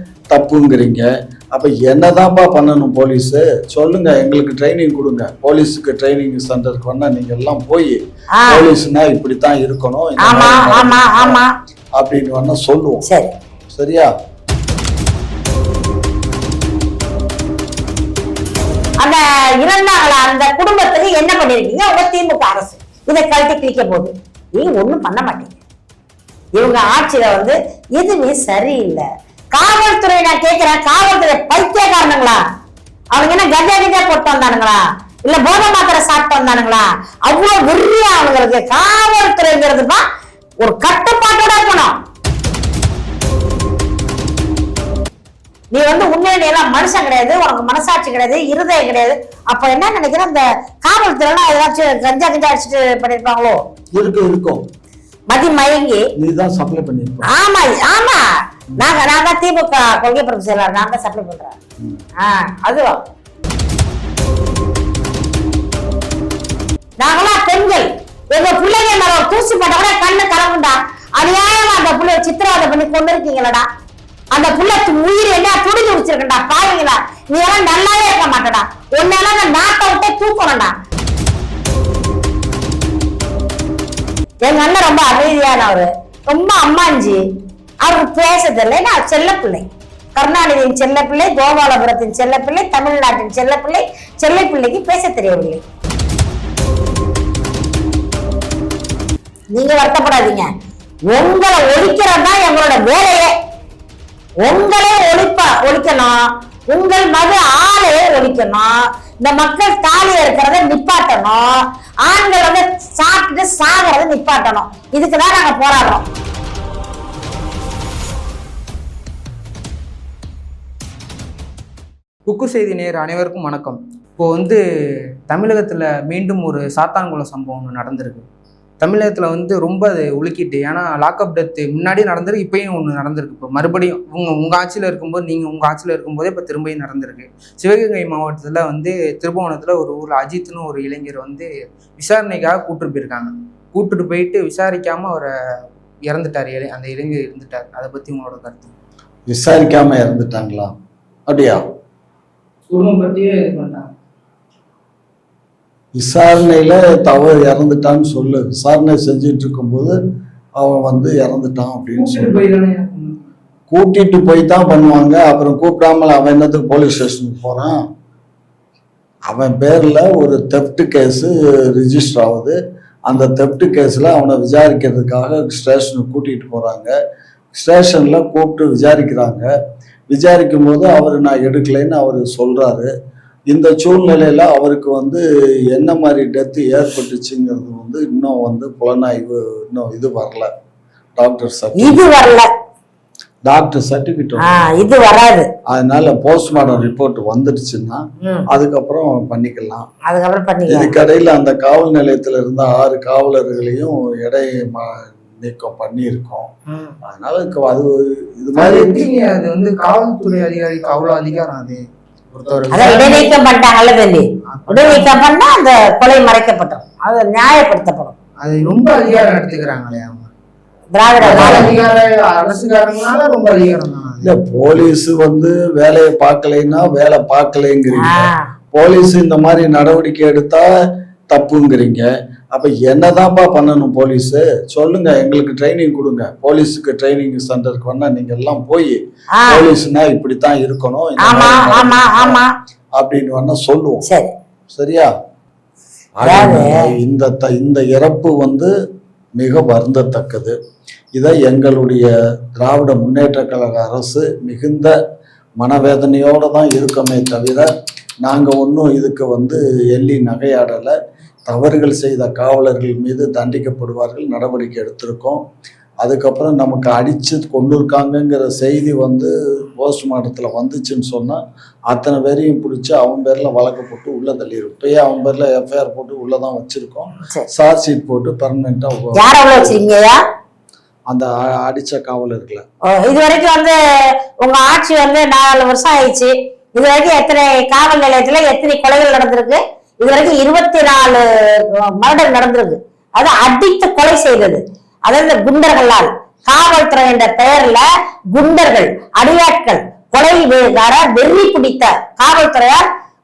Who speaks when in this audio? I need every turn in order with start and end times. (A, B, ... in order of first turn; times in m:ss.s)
0:00.3-0:11.4 A
0:08.4-0:08.7 B
0:10.2-0:11.5 B
0:12.0-0:13.0 A
0:13.1-0:13.3 B
0:13.7-0:14.1 A
0:19.0-0:25.6 B
0:26.6-0:32.4 B
0:33.1-0:40.0 B
0:40.6-0:42.0 B
0:45.7-0:53.6 B
0:54.0-0:54.6 A
0:55.3-0:56.0 B
0:56.2-0:57.3 A
0:57.3-0:58.2 B
0:58.8-1:01.6 B
1:02.2-1:03.0 B
1:07.0-1:13.7 B
1:14.3-1:20.8 B
1:24.4-1:27.2 B
1:27.8-1:29.6 B
1:30.2-1:35.6 B
1:39.5-1:40.5 B
1:41.1-1:43.3 B
1:44.4-1:56.1 B
2:02.3-2:04.6 C
2:05.3-2:08.2 C
2:08.8-2:25.3 C
2:26.1-2:28.7 C
2:29.3-2:30.7 A
2:31.3-2:31.6 A
2:32.7-2:33.9 C
2:36.0-2:40.0 A
2:40.6-2:42.4 A
2:41.9-2:43.2 C
2:43.7-2:47.8 A
2:49.3-2:57.0 A
2:57.6-2:59.5 A
3:00.1-3:02.9 A
3:03.5-3:10.5 A
3:11.2-3:12.0 A
3:11.8-3:12.5 B
3:13.5-3:14.6 A
3:14.4-3:15.5 B
3:15.7-3:19.9 A
3:18.2-3:18.5 B
3:20.1-3:21.0 B
3:20.7-3:26.5 A
3:26.7-3:27.0 B
3:27.1-3:29.0 A
3:28.6-3:33.4 C
3:32.7-3:38.2 B
3:34.5-3:35.1 C
3:38.4-3:40.3 C
3:40.9-3:41.7 B
3:41.2-3:44.3 C
3:41.3-3:41.7 A
3:44.2-3:50.7 A
3:48.0-3:48.5 B
3:51.3-4:02.4 A
3:59.4-3:59.6 B
4:01.2-4:02.5 B
4:03.0-4:04.0 A
4:04.1-4:04.3 B
4:04.7-4:05.1 A
4:06.2-4:08.7 A
4:06.2-4:06.9 B
4:09.4-4:10.6 A
4:11.2-4:14.9 A
4:15.6-4:17.7 A
4:18.2-4:21.0 A
4:21.5-4:25.4 A
4:26.0-4:39.8 A
4:39.2-4:40.2 B
4:41.1-4:42.6 A
4:42.9-4:43.8 B
4:44.4-5:02.9 B